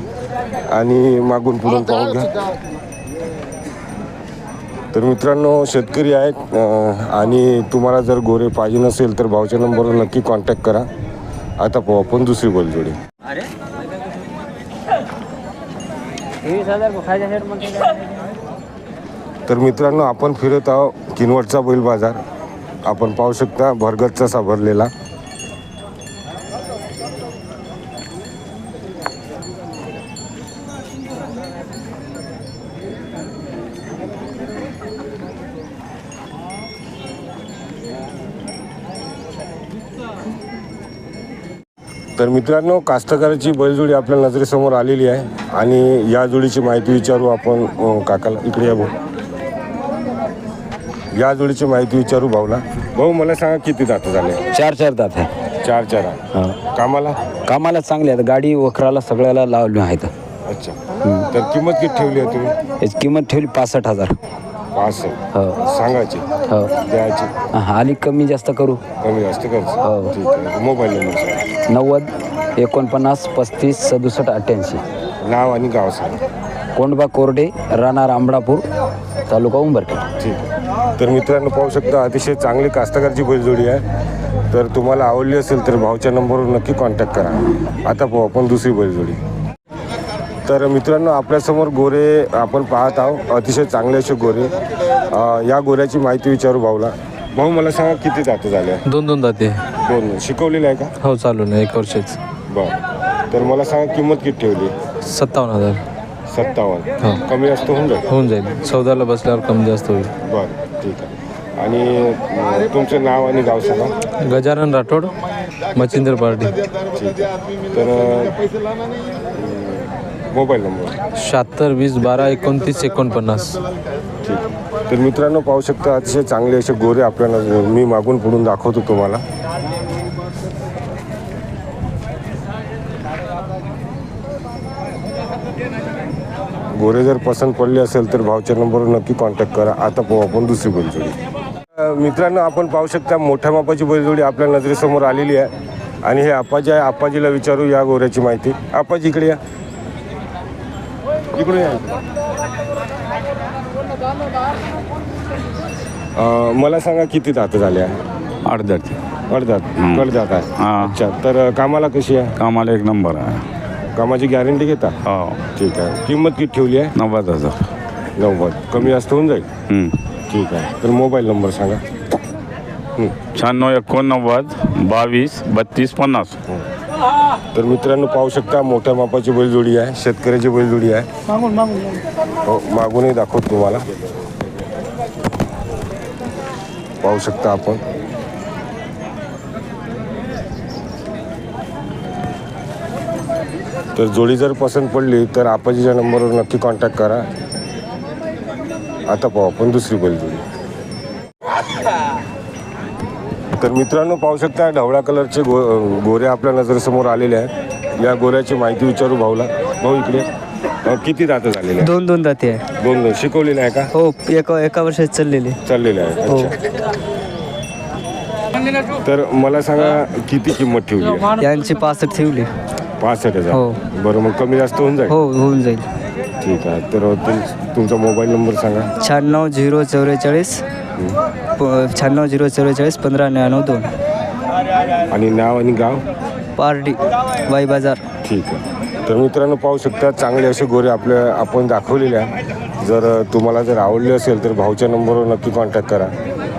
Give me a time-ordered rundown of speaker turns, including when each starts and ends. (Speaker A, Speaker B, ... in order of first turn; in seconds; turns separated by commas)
Speaker A: 0.7-2.3, Speaker A: 4.9-10.9, Speaker A: 11.6-13.0, Speaker A: 19.5-22.2, Speaker A: 22.9-24.9, Speaker A: 42.2-48.9, Speaker A: 51.1-54.4, Speaker B: 54.5-55.3, Speaker A: 55.6-57.2, Speaker B: 56.3-56.6, Speaker B: 57.5-60.1, Speaker A: 60.5-62.6, Speaker B: 62.8-64.2, Speaker A: 64.8-66.3, Speaker B: 65.3-65.6, Speaker A: 66.9-67.3, Speaker B: 67.5-68.8, Speaker A: 69.0-71.4, Speaker B: 69.8-70.2, Speaker B: 71.7-74.8, Speaker A: 75.2-76.2, Speaker B: 76.8-78.7, Speaker B: 79.3-80.1, Speaker A: 80.2-83.8, Speaker A: 84.5-89.2, Speaker A: 90.5-94.5, Speaker A: 95.1-98.8, Speaker C: 98.9-99.6, Speaker A: 99.8-100.9, Speaker C: 101.0-102.2, Speaker A: 102.5-102.8, Speaker A: 103.3-104.7, Speaker C: 105.1-105.8, Speaker A: 106.3-108.0, Speaker C: 108.1-110.1, Speaker A: 110.2-113.9, Speaker C: 114.3-115.1, Speaker C: 115.8-116.5, Speaker A: 116.9-118.4, Speaker A: 119.3-121.0, Speaker C: 121.2-123.6, Speaker A: 124.2-129.2, Speaker A: 136.7-141.2, Speaker A: 141.8-145.5, Speaker A: 146.0-149.4, Speaker A: 151.3-152.0, Speaker A: 156.2-158.0, Speaker D: 158.5-159.0, Speaker A: 159.3-162.3, Speaker D: 159.8-160.1, Speaker D: 160.6-160.9, Speaker D: 162.4-163.4, Speaker A: 163.9-165.0, Speaker D: 165.1-165.4, Speaker A: 165.6-166.9, Speaker D: 167.0-167.6, Speaker A: 168.2-169.5, Speaker A: 170.3-171.8, Speaker D: 173.4-176.3, Speaker A: 177.5-181.1, Speaker A: 182.4-183.8, Speaker A: 187.0-187.8, Speaker A: 193.9-197.3, Speaker A: 199.1-200.4, Speaker A: 203.6-210.3, Speaker A: 210.8-212.0, Speaker E: 211.8-212.6, Speaker A: 212.8-213.9, Speaker E: 213.9-215.6, Speaker A: 215.7-216.5, Speaker E: 216.3-216.5, Speaker A: 219.0-221.4, Speaker E: 221.4-222.5, Speaker A: 223.0-225.2, Speaker E: 223.5-223.8, Speaker E: 225.1-225.9, Speaker A: 226.4-228.9, Speaker E: 229.0-230.6, Speaker E: 231.6-233.9, Speaker A: 235.1-236.0, Speaker E: 236.6-238.0, Speaker A: 238.2-246.1